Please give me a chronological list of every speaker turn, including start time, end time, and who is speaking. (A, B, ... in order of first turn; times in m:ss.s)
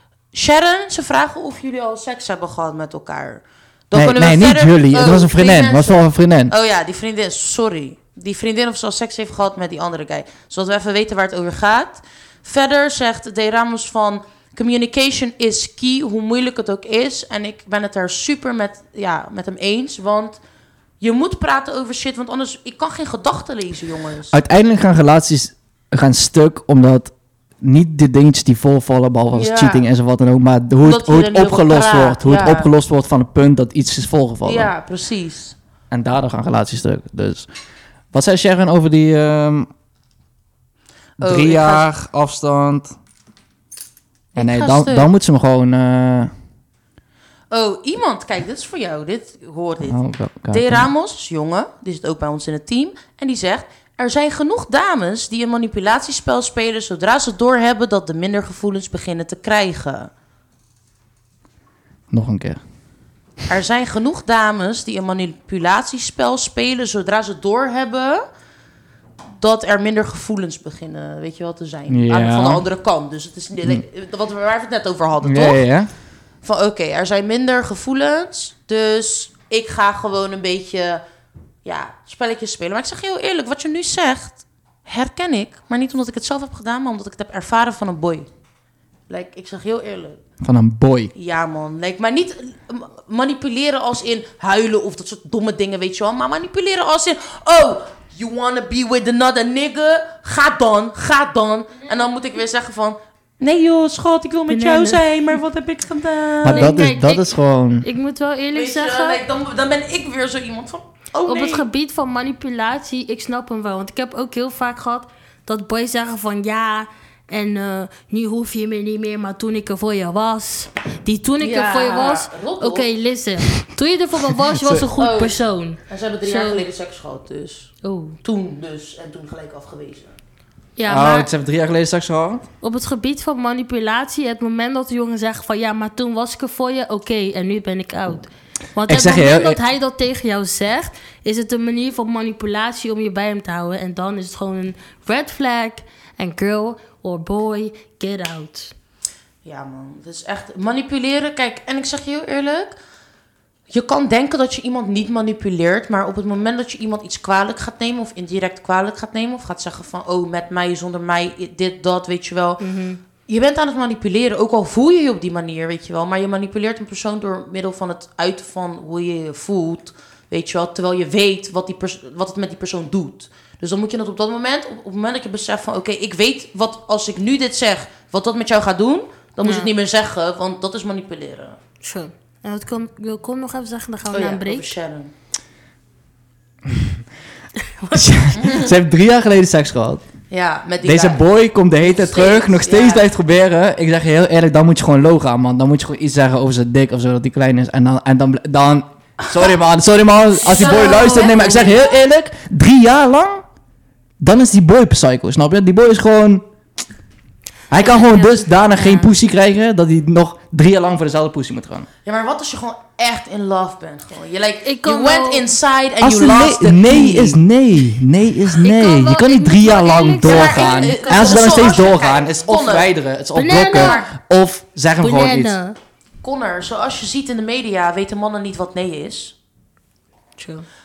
0:00.3-0:20.4 A
0:03.9-0:06.5 B
0:21.0-0:24.3 A
0:24.3-0:34.7 B
0:29.3-0:29.8 A
0:30.8-0:32.7 A
0:34.4-0:35.6 A
0:35.9-0:37.5 B
0:38.1-0:39.7 B
0:41.2-0:43.0 B
0:41.2-0:41.8 A
0:44.4-0:45.1 A
0:44.4-0:46.3 B
0:47.5-1:00.1 A
0:49.9-0:50.9 B
1:02.1-1:02.6 B
1:03.5-1:08.3 A
1:09.4-1:15.6 A
1:11.9-1:12.6 B
1:15.2-1:15.9 B
1:16.4-1:21.0 A
1:21.6-1:28.3 A
1:29.1-1:30.2 A
1:30.4-1:31.1 B
1:31.2-1:46.8 A
1:44.5-1:45.0 C
1:46.4-1:47.9 B
1:46.5-1:47.3 C
1:47.8-1:49.2 C
1:48.5-1:51.6 A
1:51.3-2:06.7 C
2:01.4-2:02.9 A
2:04.5-2:04.9 B
2:05.0-2:07.7 A
2:07.8-2:08.2 C
2:08.2-2:10.1 A
2:10.8-2:11.3 C
2:10.9-2:12.4 B
2:12.6-2:28.7 C
2:18.9-2:19.6 B
2:29.4-2:32.8 A
2:33.7-2:42.6 A
2:42.6-2:43.0 C
2:43.3-3:01.6 A
2:59.4-2:59.7 C
3:01.8-3:04.7 C
3:04.1-3:05.1 A
3:06.7-3:06.9 B
3:07.9-3:10.0 B
3:08.4-3:08.7 A
3:10.3-3:11.2 A
3:10.8-3:23.4 B
3:11.8-3:13.1 A
3:20.4-3:21.9 C
3:20.5-3:22.0 A
3:24.2-3:26.4 B
3:27.7-3:31.9 B
3:27.7-3:29.1 C
3:32.0-3:37.4 A
3:34.6-3:35.5 C
3:36.0-3:45.6 B
3:38.6-3:41.8 C
3:40.2-3:42.9 A
3:43.4-3:44.0 C
3:45.0-3:45.8 C
3:46.2-3:49.3 A
3:50.4-3:50.6 C